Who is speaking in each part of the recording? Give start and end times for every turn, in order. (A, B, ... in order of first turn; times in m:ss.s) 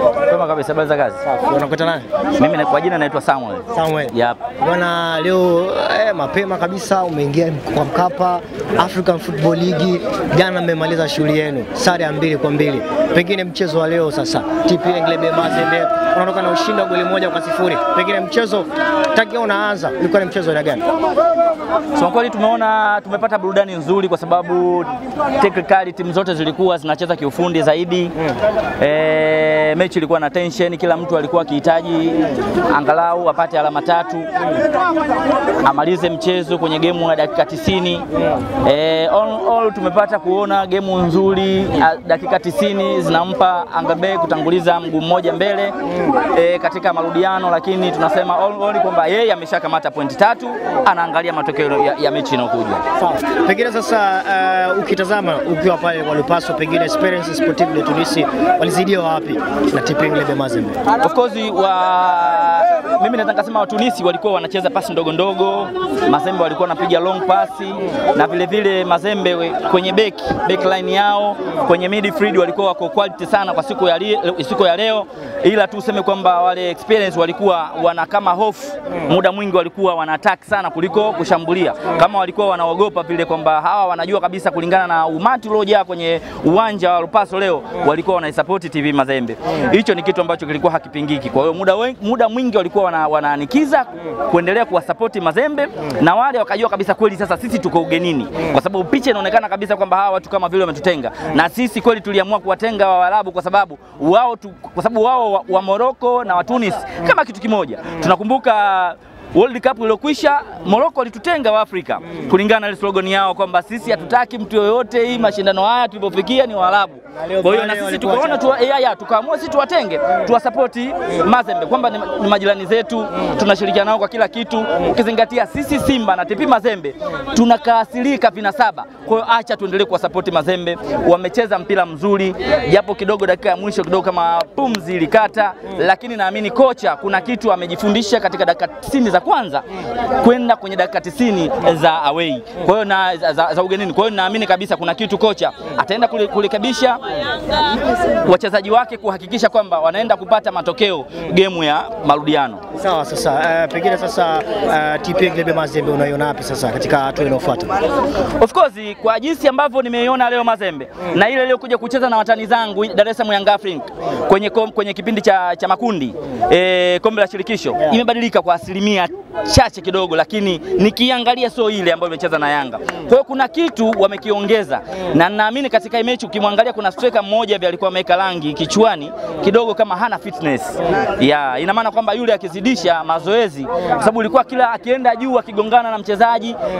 0:00.3-0:01.2 A
0:01.3-0:02.0 B
0:02.4-0:04.4 A
0:03.7-0:20.8 B
0:21.9-0:28.1 A
0:28.8-0:34.3 A
0:35.6-0:38.0 A
0:38.6-0:52.8 A
0:53.0-1:00.8 B
1:01.0-2:19.6 A
1:57.2-1:58.5 B
2:20.2-2:27.0 A
2:28.2-2:32.6 A
2:32.8-2:37.7 B
2:38.4-3:06.6 A